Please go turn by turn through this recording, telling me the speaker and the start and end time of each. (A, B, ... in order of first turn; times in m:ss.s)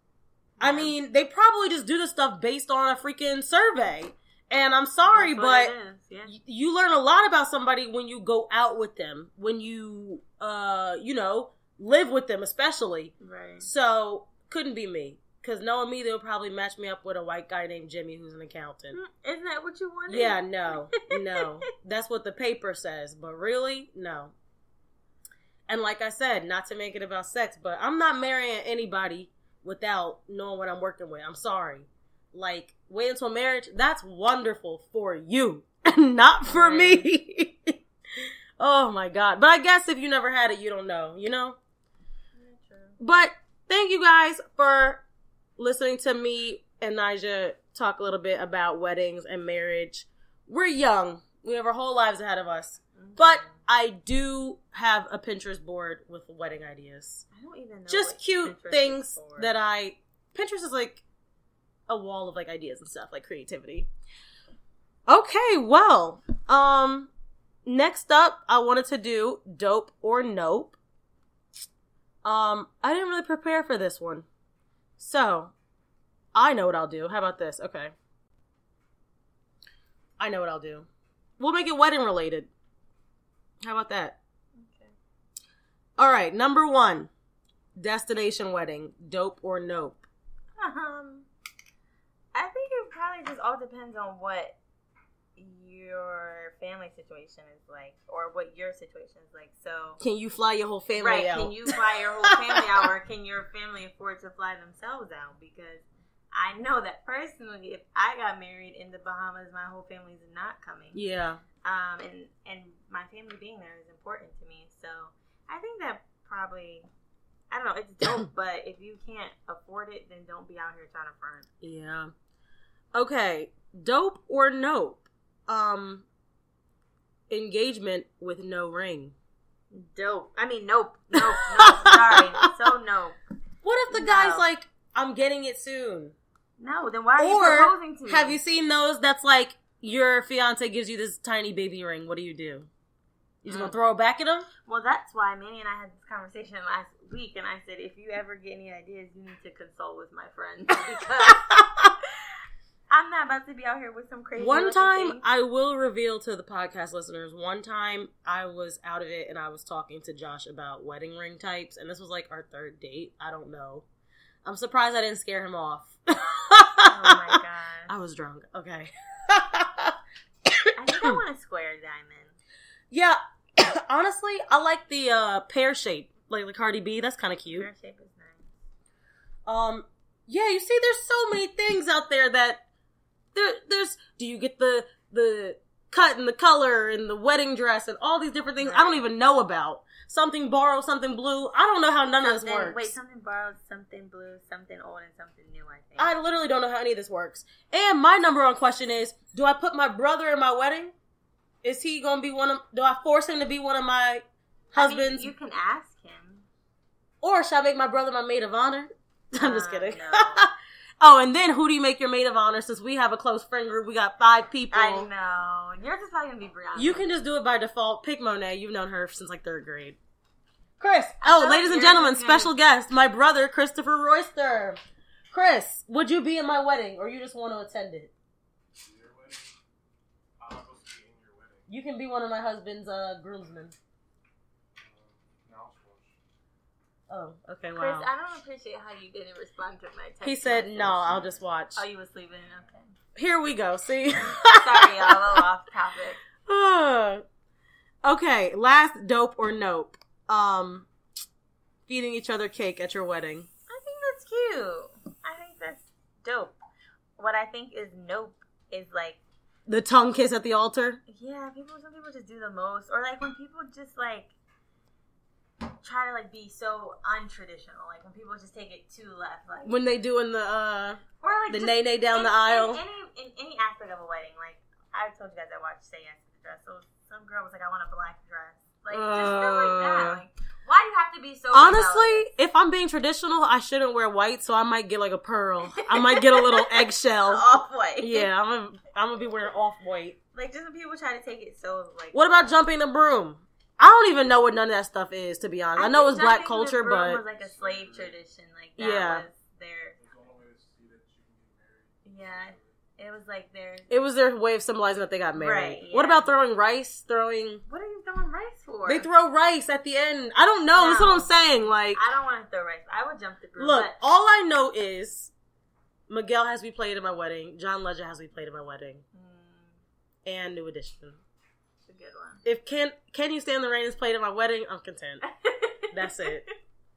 0:00.6-0:00.9 A
0:00.6-0:05.7 B
0:05.1-0:06.4 A
0:06.3-0:19.0 B
0:13.2-0:13.7 A
0:18.9-0:21.5 A
0:20.1-0:24.3 B
0:25.7-0:41.6 B
0:36.5-0:37.1 A
0:42.4-0:43.0 A
0:43.0-0:45.0 B
0:45.6-0:57.2 B
0:53.0-0:53.6 A
0:57.3-0:59.6 A
0:57.9-1:01.0 B
1:01.9-1:03.9 B
1:05.1-1:07.1 B
1:07.6-1:10.8 B
1:12.2-1:14.3 B
1:15.0-1:15.5 B
1:16.3-1:17.9 B
1:20.2-1:20.9 B
1:21.4-1:22.5 B
1:23.6-1:24.2 B
1:24.6-1:25.0 A
1:26.0-1:27.1 B
1:27.8-1:30.0 B
1:30.6-1:31.3 A
1:32.3-1:34.6 A
1:35.4-1:40.0 A
1:40.0-1:42.8 B
1:41.0-1:51.0 A
1:50.9-1:51.4 B
1:51.6-1:56.9 A
1:57.5-2:01.5 A
2:01.6-2:02.1 B
2:02.9-2:06.0 B
2:07.3-2:09.2 B
2:09.7-2:13.2 A
2:11.2-2:12.5 B
2:13.6-2:16.2 B
2:13.9-2:14.5 A
2:16.6-2:18.4 A
2:17.2-2:22.7 B
2:23.4-2:24.5 B
2:23.5-2:23.8 A
2:24.7-2:32.1 A
2:32.9-2:35.2 A
2:34.4-2:43.8 B
2:44.4-2:47.4 B
2:46.8-2:47.9 A
2:47.9-2:50.0 B
2:50.5-2:51.2 B
2:50.8-2:52.4 A
2:52.9-2:57.7 B
2:57.5-2:58.6 A
2:59.5-3:02.6 B
3:03.3-3:12.9 B
3:08.6-3:09.0 A
3:12.2-3:16.1 A
3:16.0-3:20.9 B
3:21.6-3:25.3 B
3:24.7-3:26.5 A
3:27.2-3:35.1 B
3:29.4-3:30.5 A
3:34.7-3:37.0 A
3:36.8-3:40.0 B
3:40.8-3:44.8 B
3:41.2-3:42.6 A
3:45.3-3:48.1 B
3:48.8-3:49.6 C
3:50.4-3:51.7 C
3:51.7-3:53.8 B
3:54.8-3:56.2 C
3:57.1-3:58.1 B
3:57.8-4:01.2 A
4:00.2-4:01.8 B
4:00.8-4:01.5 C
4:01.8-4:02.9 A
4:03.2-4:05.4 B
4:04.2-4:06.2 A
4:06.5-4:07.2 B
4:08.0-4:10.9 B
4:11.9-4:13.5 B
4:13.7-4:16.6 A
4:17.2-4:19.2 A
4:19.7-4:21.0 B
4:21.1-4:24.3 A
4:25.8-4:29.8 A
4:29.7-4:32.8 B
4:31.2-4:42.3 A
4:38.9-4:40.2 B
4:41.5-4:47.4 B
4:45.8-4:48.3 A
4:48.0-4:50.2 B
4:50.3-4:52.6 A
4:52.1-4:57.2 B
4:55.8-5:00.0 A
4:57.3-4:58.2 C
4:58.8-4:59.2 B
5:00.0-5:02.8 C
5:02.0-5:03.9 A
5:03.9-5:07.6 B
5:05.3-5:06.3 A
5:07.7-5:09.1 A
5:08.9-5:12.0 B
5:10.7-5:11.4 A
5:11.9-5:14.0 A
5:13.6-5:15.3 B
5:16.1-5:19.0 B
5:19.1-5:19.8 A
5:20.2-5:21.2 B
5:21.9-5:22.4 A
5:22.4-5:25.2 B
5:25.2-5:26.5 A
5:25.9-5:26.4 B